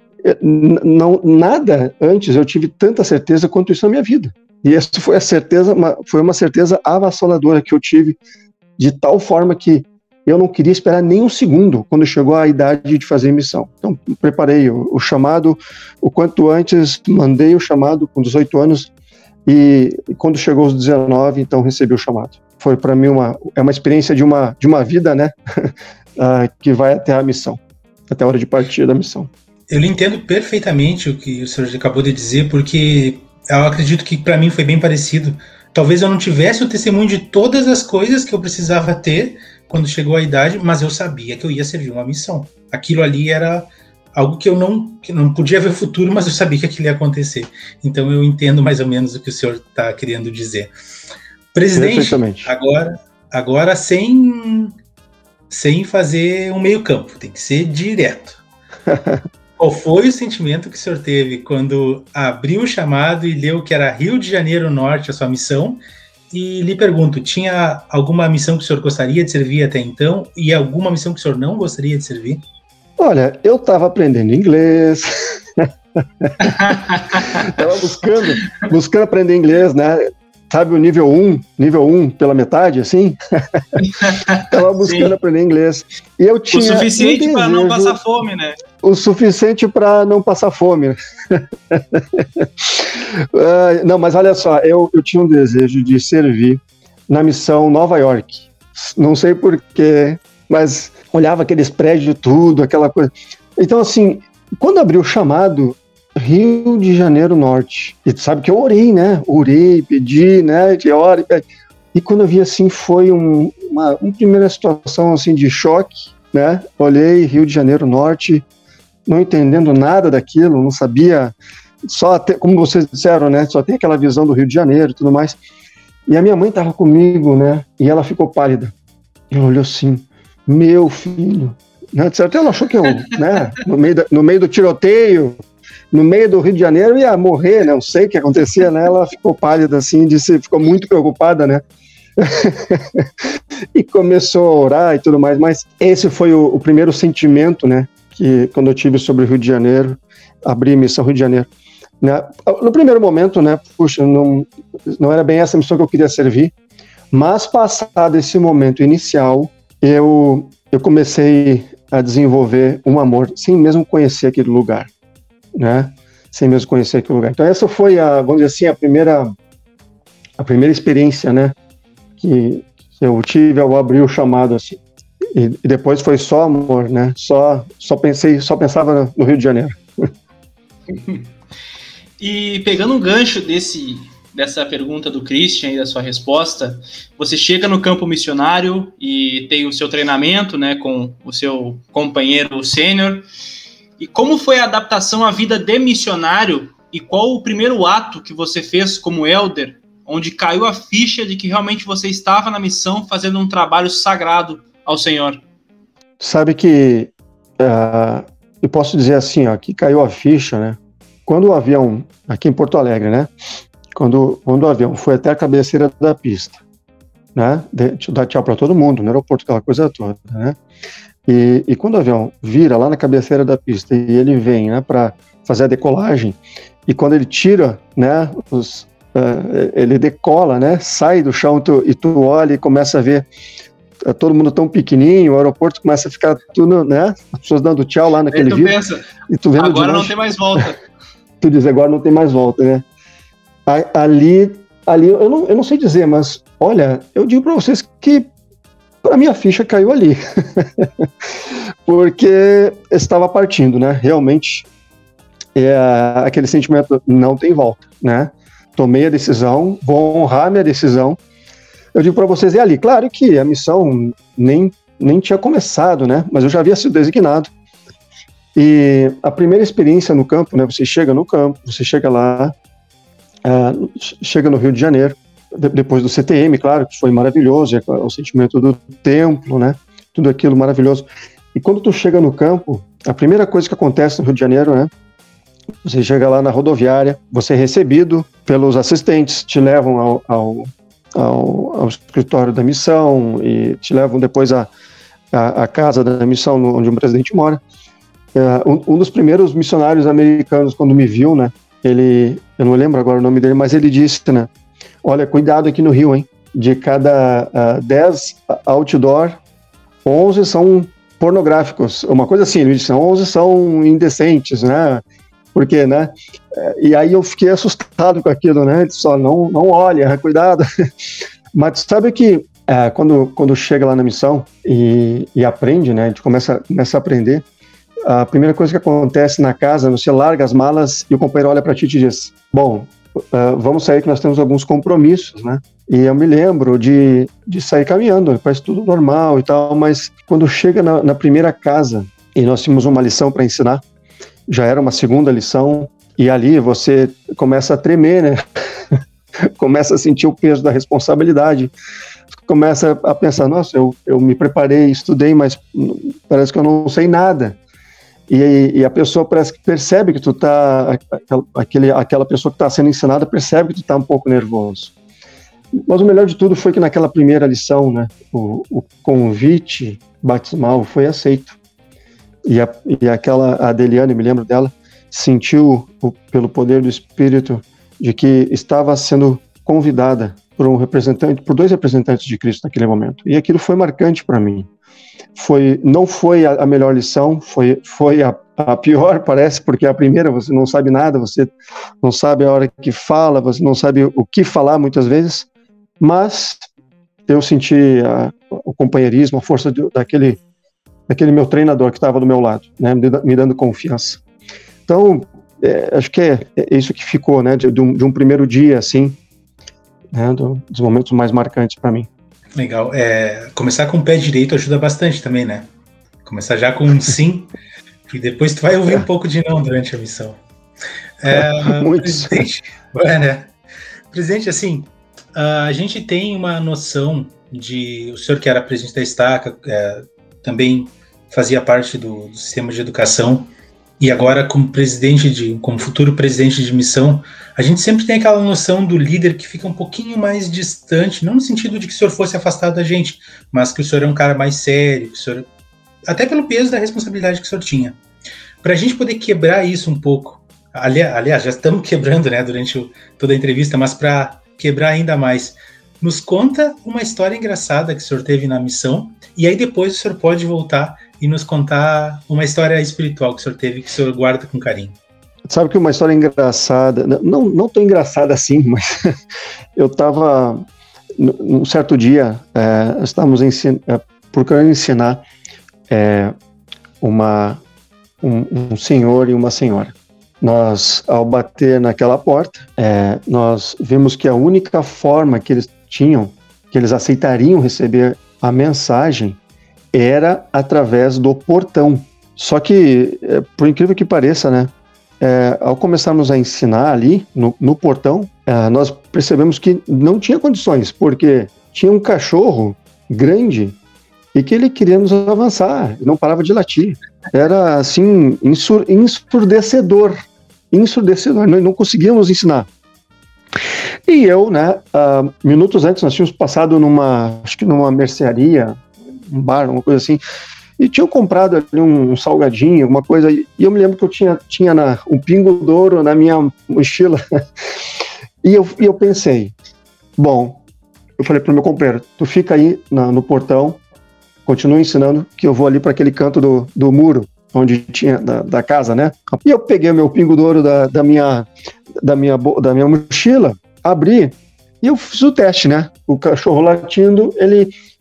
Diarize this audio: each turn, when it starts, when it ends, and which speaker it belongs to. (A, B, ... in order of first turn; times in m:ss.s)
0:00.2-0:08.2 A
0:08.8-0:18.9 A
0:19.5-0:29.3 A
0:29.7-0:50.7 B
0:51.5-0:54.8 B
0:51.8-0:52.5 A
0:55.5-0:58.4 B
0:58.9-0:59.2 A
0:59.6-1:05.8 B
1:06.3-1:12.4 B
1:13.0-1:23.6 A
1:16.4-1:17.5 C
1:23.8-1:25.2 C
1:24.4-1:28.0 A
1:26.5-1:28.6 C
1:28.8-1:58.4 A
1:59.1-2:05.4 A
2:06.1-2:08.7 A
2:09.3-2:15.4 A
2:15.9-2:21.6 A
2:22.2-2:23.1 A
2:23.7-2:31.5 A
2:32.0-2:36.5 A
2:37.1-2:44.9 A
2:45.6-2:49.3 A
2:50.4-2:51.6 A
2:52.2-2:54.8 A
2:55.3-2:59.8 A
3:00.9-3:01.2 C
3:02.2-3:13.2 C
3:14.0-3:25.4 C
3:26.2-3:33.3 A
3:33.9-3:36.6 A
3:37.4-3:40.6 A
3:41.3-3:53.3 A
3:54.0-3:58.8 A
3:58.3-3:59.0 C
3:59.3-4:00.2 A
3:59.6-4:00.8 C
4:01.4-4:02.9 A
4:03.7-4:08.3 A
4:09.0-4:11.1 A
4:11.8-4:14.7 A
4:15.6-4:21.2 A
4:22.0-4:27.5 A
4:28.6-4:32.5 A
4:33.4-4:44.9 A
4:45.8-4:54.7 A
4:55.3-4:57.6 A
4:58.3-5:04.5 A
5:05.0-5:09.4 A
5:10.0-5:20.7 A
5:21.5-5:27.4 A
5:28.1-5:43.8 A
5:44.5-5:48.4 A
5:49.6-5:51.7 A
5:52.3-5:57.6 A
5:58.3-6:04.9 A
6:05.9-6:11.6 A
6:12.5-6:24.7 A
6:25.4-6:35.5 A
6:36.0-6:36.7 A
6:37.3-6:40.4 A
6:41.1-6:44.2 A
6:44.9-6:49.2 A
6:50.1-6:52.1 A
6:52.6-6:55.7 B
6:56.2-6:57.5 B
6:58.1-7:00.4 B
7:01.2-7:03.5 B
7:01.3-7:02.5 A
7:04.1-7:25.5 B
7:26.1-7:28.0 B
7:28.6-7:45.0 B
7:45.5-7:49.2 A
7:49.8-7:50.6 A
7:51.2-7:55.2 A
7:55.9-7:56.4 A
7:57.0-7:57.6 A
7:58.2-8:09.4 A
8:09.9-8:23.8 A
8:24.3-8:30.2 A
8:30.7-8:32.7 A
8:34.1-8:40.2 A
8:40.8-8:47.2 A
8:48.4-8:49.5 A
8:50.2-8:50.6 A
8:51.2-8:53.8 A
8:54.5-9:01.5 A
9:02.0-9:07.7 A